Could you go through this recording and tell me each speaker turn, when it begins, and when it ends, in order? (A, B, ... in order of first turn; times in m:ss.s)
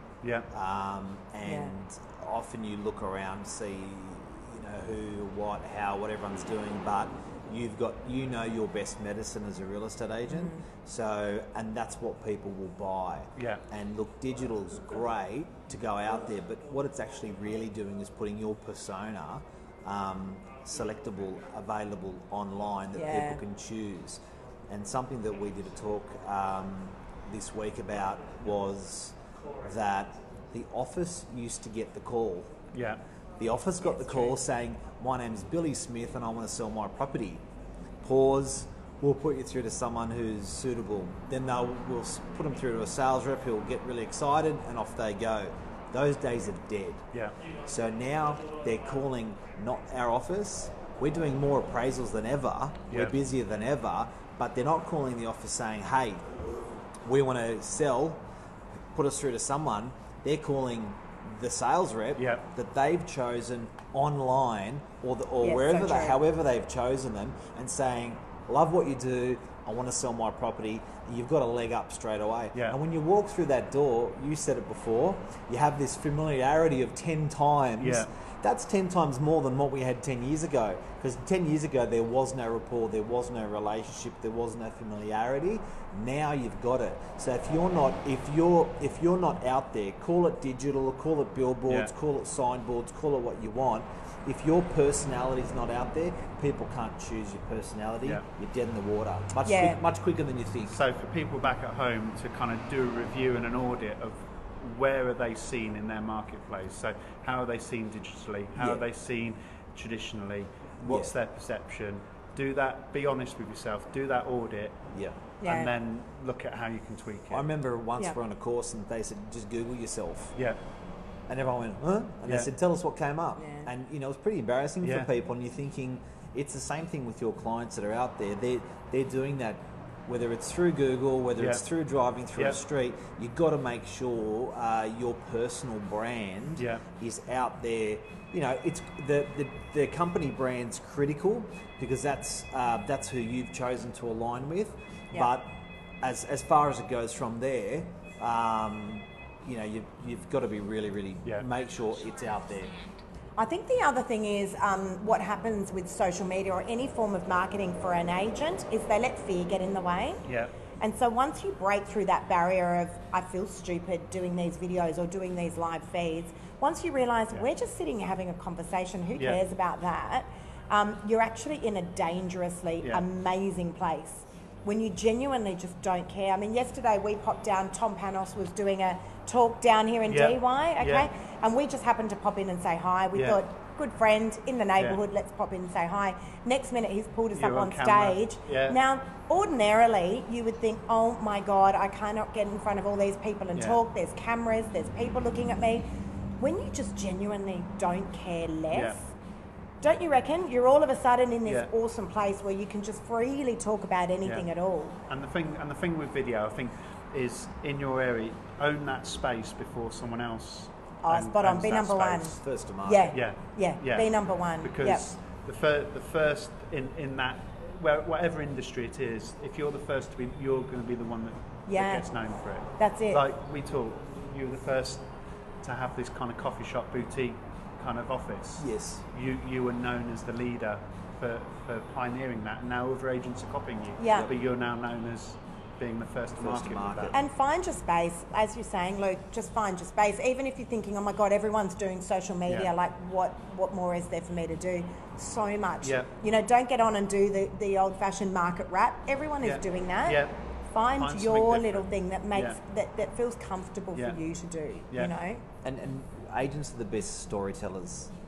0:00.2-0:00.5 A
0:00.5-0:32.5 B
0:01.4-0:01.7 C
0:10.3-0:10.6 C
0:13.4-0:13.6 A
0:22.9-0:23.4 C
0:32.7-0:33.0 A
0:33.4-0:37.4 B
0:33.8-0:34.4 C
0:38.0-0:47.0 B
0:47.6-0:56.2 B
0:52.9-0:53.1 A
0:57.0-0:58.2 B
0:58.9-1:40.8 B
1:02.2-1:02.4 A
1:05.4-1:06.2 C
1:17.8-1:18.1 A
1:39.4-1:39.8 C
1:40.7-1:54.8 A
1:48.5-1:48.8 B
1:50.8-1:51.1 B
1:54.9-1:55.2 B
1:55.4-1:55.7 C
1:55.4-1:57.4 A
1:57.3-2:00.3 B
2:00.3-2:00.6 A
2:01.3-2:32.8 B
2:03.4-2:03.7 C
2:04.8-2:05.1 A
2:11.4-2:11.6 A
2:16.6-2:16.8 A
2:33.4-2:40.2 C
2:40.2-2:40.5 A
2:40.8-3:19.1 C
3:00.1-3:01.0 A
3:07.3-3:08.8 A
3:18.7-3:19.0 A
3:19.8-3:25.0 C
3:25.1-3:32.3 A
3:31.0-3:35.1 C
3:32.3-3:33.2 B
3:33.1-3:45.0 A
3:41.7-3:42.1 C
3:42.8-3:43.2 C
3:45.6-3:57.2 A
3:48.6-3:49.0 B
3:54.0-3:54.3 C
3:56.4-3:57.2 B
3:57.1-4:15.4 C
4:05.8-4:06.1 A
4:09.4-4:10.4 A
4:11.0-4:12.6 A
4:15.6-4:18.1 B